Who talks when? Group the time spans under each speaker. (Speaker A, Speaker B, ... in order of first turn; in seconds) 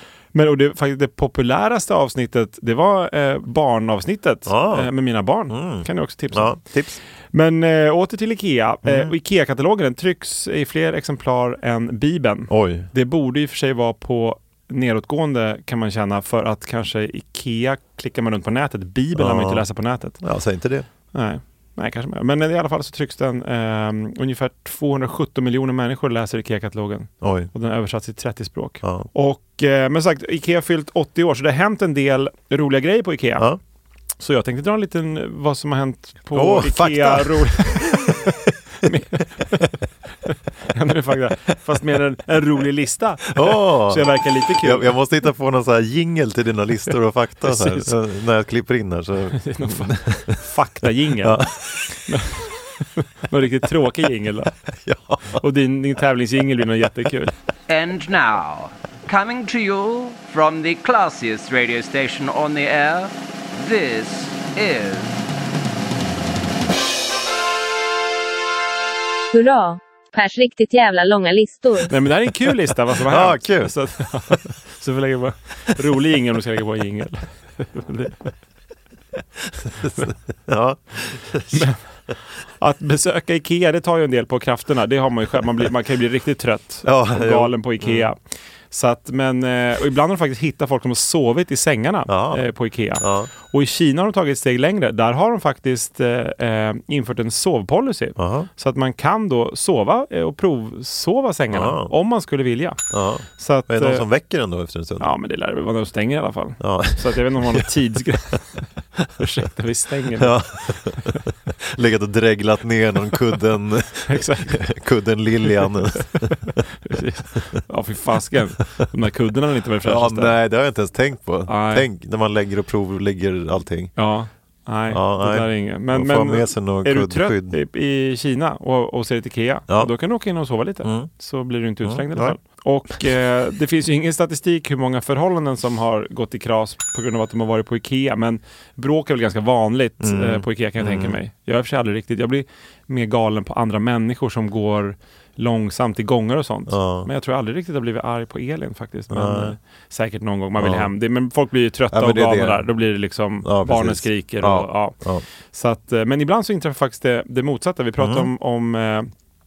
Speaker A: 0.3-6.7, 7.3-20.2, 21.1-33.5, 34.2-39.7, 40.2-45.0, 47.5-47.9, 49.4-51.5, 52.0-54.5, 55.4-57.3, 71.9-78.3, 81.5-81.8, 82.6-88.2, 88.7-102.8, 103.4-104.0, 105.0-108.6, 109.2-111.0, 114.1-114.6, 116.2-120.3, 121.5-121.8, 124.0-154.9, 155.5-159.1
Speaker B: 4.5-4.9, 5.5-7.0, 8.8-9.1, 12.5-12.9, 19.1-19.6, 20.2-20.9, 27.2-27.5, 28.8-29.1, 36.3-38.3, 43.3-50.4, 51.2-52.0, 54.8-55.4, 73.0-73.7, 79.6-81.7, 86.8-88.1, 92.1-92.4, 93.0-93.3, 98.2-98.5, 101.5-101.9, 102.9-105.1, 106.6-107.7, 110.2-116.3, 119.8-123.9, 124.9-127.6, 130.8-131.1, 131.8-132.4, 140.0-141.2, 146.7-147.1, 149.1-149.6, 150.6-150.9, 151.9-152.7, 153.4-155.2, 158.0-158.3
Speaker C: 57.7-65.2
Speaker D: 69.3-71.9